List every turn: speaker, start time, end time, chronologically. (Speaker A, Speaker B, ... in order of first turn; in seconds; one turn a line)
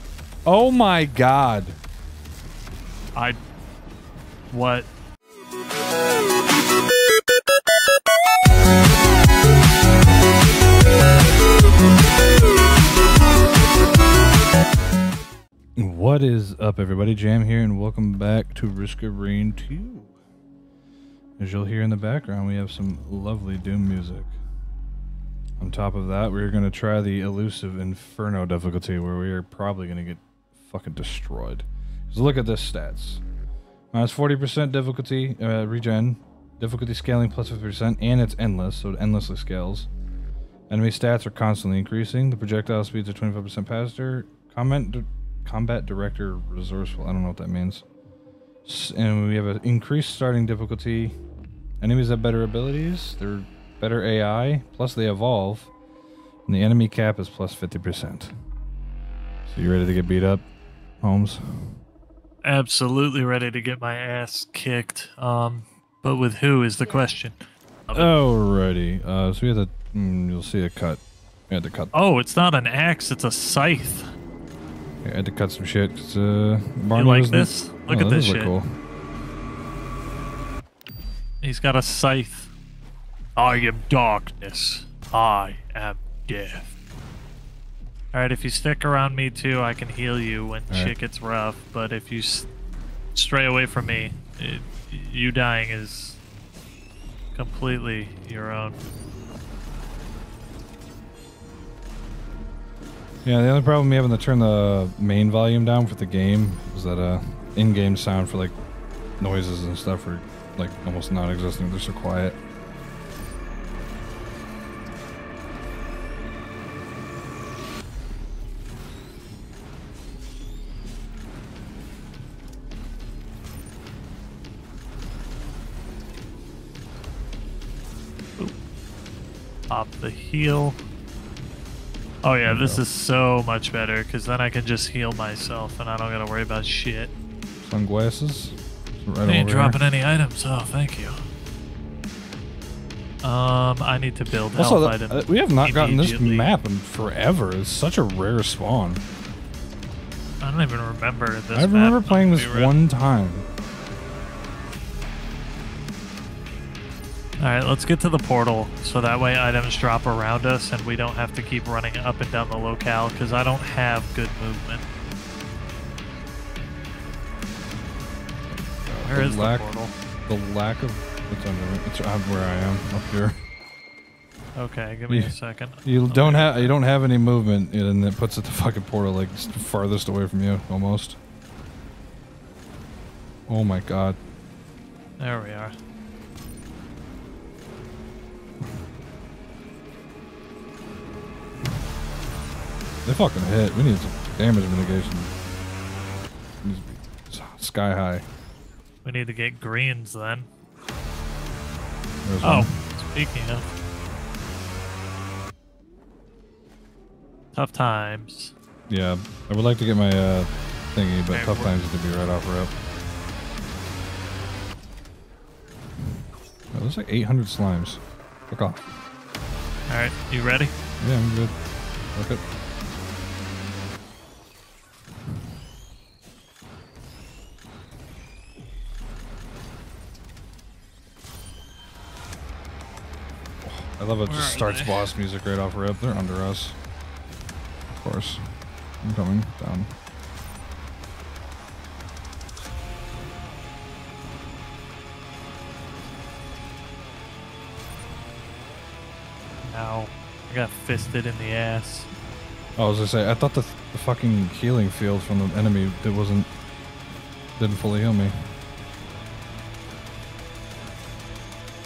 Speaker A: 0.4-1.8
Speaker B: 3.1-3.4
Speaker B: 4.5-4.9
Speaker A: 15.8-20.1
Speaker A: 21.4-24.3
Speaker A: 25.6-33.2
Speaker A: 33.9-39.9
Speaker A: 40.7-47.8
Speaker A: 48.6-51.1
Speaker A: 51.8-55.7
Speaker A: 56.5-58.3
Speaker A: 59.5-60.4
Speaker A: 61.0-61.7
Speaker B: 62.4-67.3
Speaker A: 67.9-71.9
Speaker B: 71.9-74.0
Speaker A: 75.0-78.8
Speaker B: 76.9-78.5
Speaker B: 81.4-82.5
Speaker B: 83.3-86.7
Speaker B: 88.1-92.5
Speaker B: 93.1-96.2
Speaker B: 97.3-98.8
Speaker A: 103.2-108.5
Speaker A: 109.2-112.4
Speaker B: 129.7-130.8
Speaker B: 132.2-137.1
Speaker A: 132.4-132.8
Speaker A: 137.6-139.8
Speaker B: 139.2-141.2
Speaker B: 143.2-146.5
Speaker A: 144.5-149.0
Speaker B: 150.4-152.7
Speaker A: 151.5-153.4
Speaker B: 157.4-164.8
Speaker A: 168.5-169.7
Speaker B: 169.0-169.9
Speaker A: 170.2-173.4
Speaker B: 174.6-176.7
Speaker A: 175.1-181.2
Speaker A: 183.5-184.2
Speaker B: 185.2-185.8
Speaker A: 193.0-195.3
Speaker A: 196.6-198.2
Speaker B: 199.0-200.5
Speaker A: 202.2-202.8
Speaker B: 202.4-203.6
Speaker B: 207.5-208.5
Speaker A: 208.9-212.7
Speaker B: 211.3-211.7
Speaker A: 216.7-218.8
Speaker B: 219.9-220.7
Speaker A: 221.0-221.6
Speaker A: 222.1-222.4
Speaker A: 233.6-236.8
Speaker B: 234.3-235.1
Speaker A: 237.9-238.5
Speaker A: 239.0-239.9
Speaker B: 249.6-252.1
Speaker A: 252.8-256.5
Speaker A: 257.6-258.4